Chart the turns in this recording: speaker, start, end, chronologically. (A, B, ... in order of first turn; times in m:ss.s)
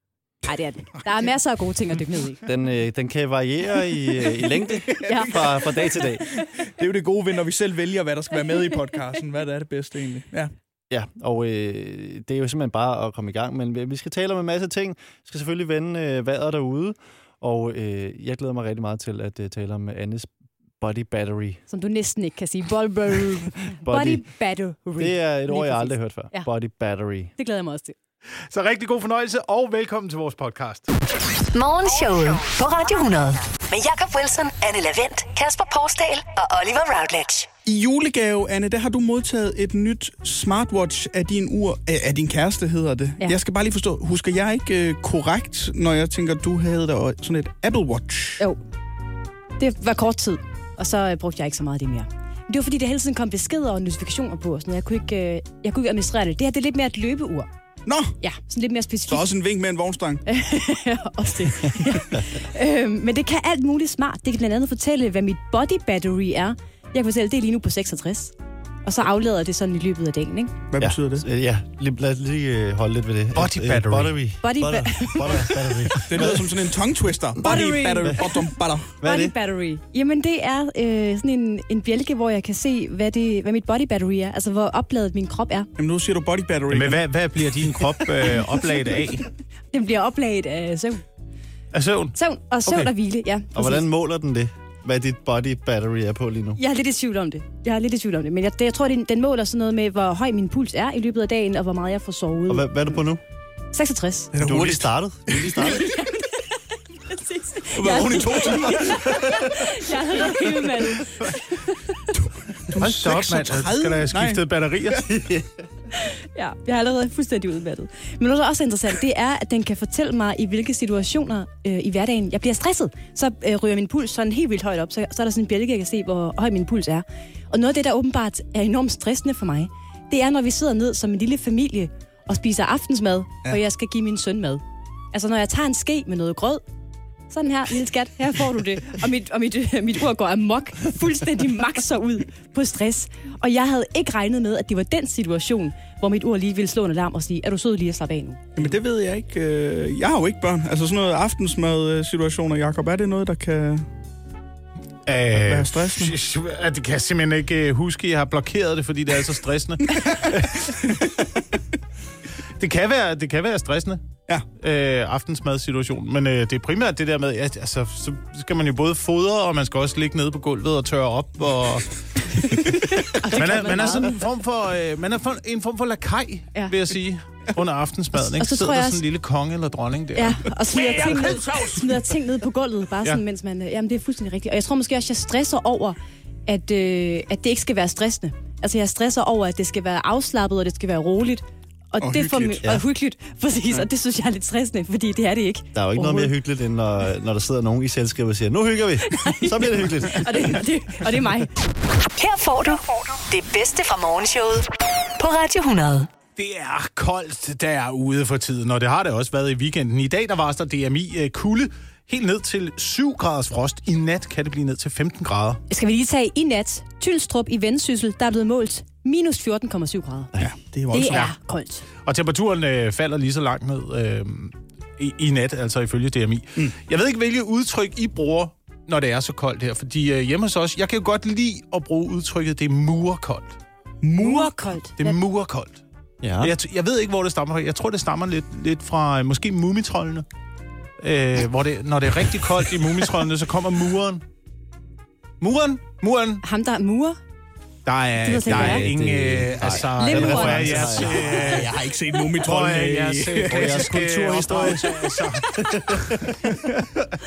0:00.4-0:02.4 A
0:02.4-0:06.3 B
0:04.4-0:05.5 A
0:04.9-0:10.5 C
0:10.9-0:21.6 B
0:21.7-0:26.5 A
0:23.8-0:24.3 B
0:25.0-0:27.3 B
0:27.4-0:28.0 A
0:28.5-0:30.9 D
0:31.5-0:37.5 E
0:37.6-0:48.4 C
0:49.6-0:57.5 A
0:57.9-0:58.2 C
0:58.2-0:59.3 A
0:59.1-1:00.2 C
1:00.3-1:10.6 A
1:10.7-1:11.3 C
1:10.8-1:16.6 B
1:13.4-1:14.2 D
1:14.4-1:15.6 A
1:15.7-1:19.0 C
1:17.4-1:18.5 A
1:19.0-1:19.4 B
1:19.0-1:25.7 A
1:25.8-1:27.0 C
1:26.7-1:29.3 D
1:29.7-1:31.0 A
1:31.7-1:32.9 D
1:32.2-1:33.8 A
1:33.6-1:36.6 B
1:36.6-1:42.7 A
1:42.5-1:43.2 B
1:43.7-1:44.3 A
1:44.3-1:45.7 C
1:44.4-1:45.9 B
1:45.6-1:52.0 A
1:47.7-1:49.1 C
1:52.1-1:54.4 C
1:52.8-1:55.2 D
1:55.1-1:55.4 B
1:55.9-2:14.6 A
2:15.1-2:16.6 A
2:17.3-2:28.4 A
2:28.6-2:33.9 C
2:35.1-2:41.0 D
2:35.3-2:36.2 C
2:42.6-2:44.0 D
2:44.6-3:01.9 D
2:52.6-2:54.2 A
2:58.2-2:59.0 A
3:00.2-3:16.3 A
3:12.0-3:12.6 C
3:15.8-3:20.6 B
3:19.1-3:21.5 A
3:22.2-3:26.1 E
3:26.4-3:35.6 D
3:35.7-3:40.3 A
3:40.4-3:41.3 C
3:40.9-3:41.8 A
3:41.1-3:41.4 D
3:42.0-3:53.6 D
3:54.0-3:54.5 C
3:54.2-3:55.2 A
3:55.0-3:55.8 D
3:56.2-3:56.6 B
3:56.4-4:00.3 D
4:01.0-4:04.2 D
4:05.4-4:06.4 D
4:06.4-4:07.2 A
4:07.9-4:11.7 D
4:08.2-4:08.9 A
4:08.4-4:11.7 B
4:10.0-4:11.3 A
4:11.3-4:13.9 C
4:12.4-4:16.3 D
4:13.5-4:16.4 B